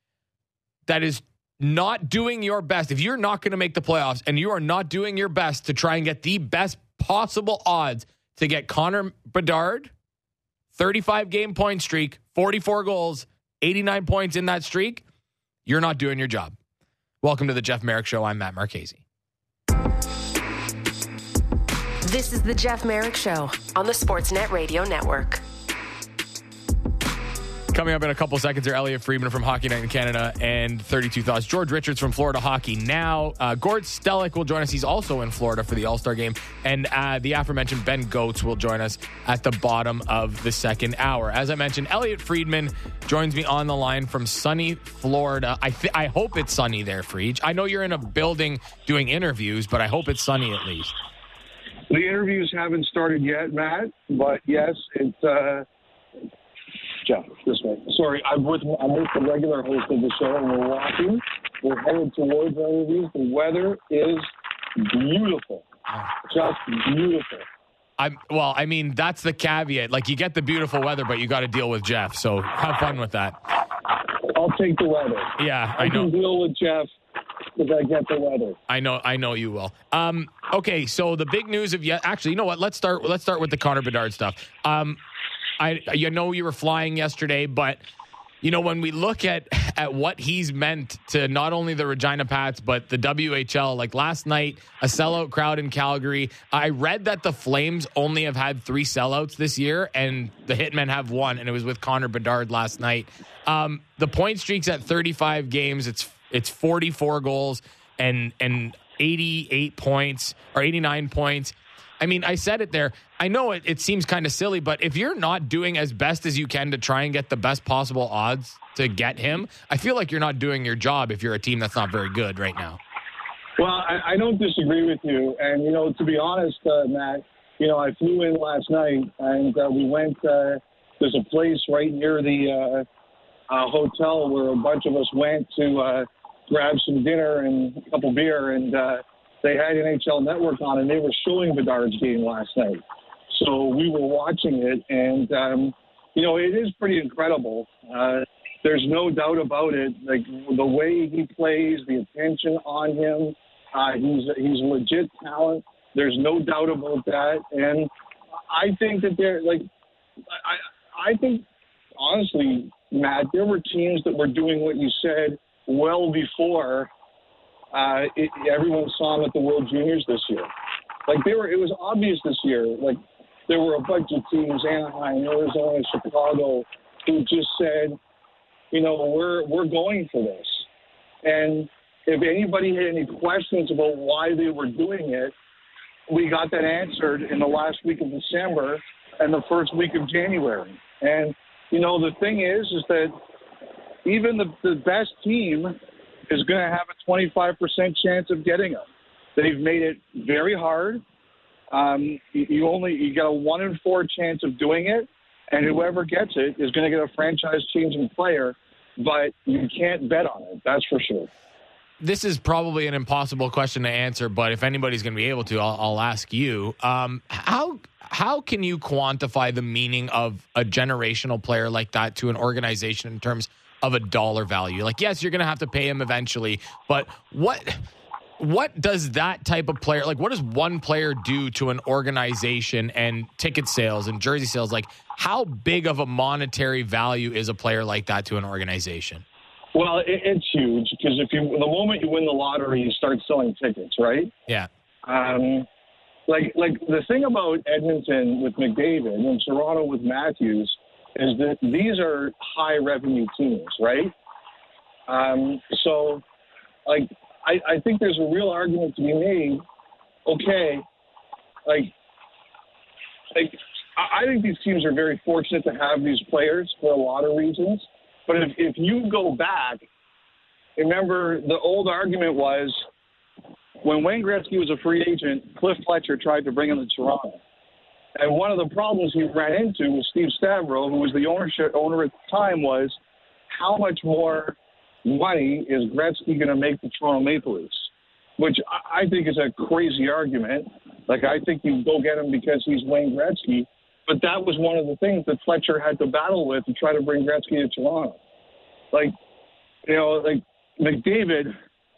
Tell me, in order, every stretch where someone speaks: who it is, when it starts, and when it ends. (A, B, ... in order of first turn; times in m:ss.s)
0:00.9-0:09.9 A
0:10.7-0:15.0 A
0:15.7-0:16.6 A
0:17.2-0:19.0 A
0:22.1-0:25.4 B
0:27.7-0:51.0 A
0:51.9-0:55.7 C
0:57.0-1:05.7 C
1:06.2-1:07.5 C
1:08.0-1:13.4 A
1:14.3-1:16.9 C
1:15.4-1:16.1 A
1:17.6-1:18.6 C
1:18.7-1:25.0 A
1:25.6-1:27.8 A
1:28.4-2:02.8 A
2:03.6-2:12.9 C
2:13.5-2:37.9 C
2:38.5-2:39.6 C
2:40.3-2:41.5 C
2:42.0-2:46.9 C
2:47.7-2:50.5 C
2:51.1-2:58.0 C
2:58.7-3:00.7 C
3:01.2-3:05.3 C
3:06.1-3:13.2 C
3:14.0-3:15.8 C
3:16.3-3:21.0 C
3:21.7-3:31.3 C
3:32.0-3:47.9 A
3:48.4-3:59.2 A
3:59.7-4:04.3 C
4:05.0-4:05.7 C
4:06.3-4:14.1 C
4:15.1-4:16.2 C
4:16.9-4:19.6 C
4:20.3-4:20.9 C
4:21.7-4:21.9 C
4:23.3-4:29.8 C
4:30.8-4:32.8 C
4:33.8-4:37.4 C
4:38.2-4:43.0 C
4:43.5-4:58.2 C
4:59.8-5:01.5 C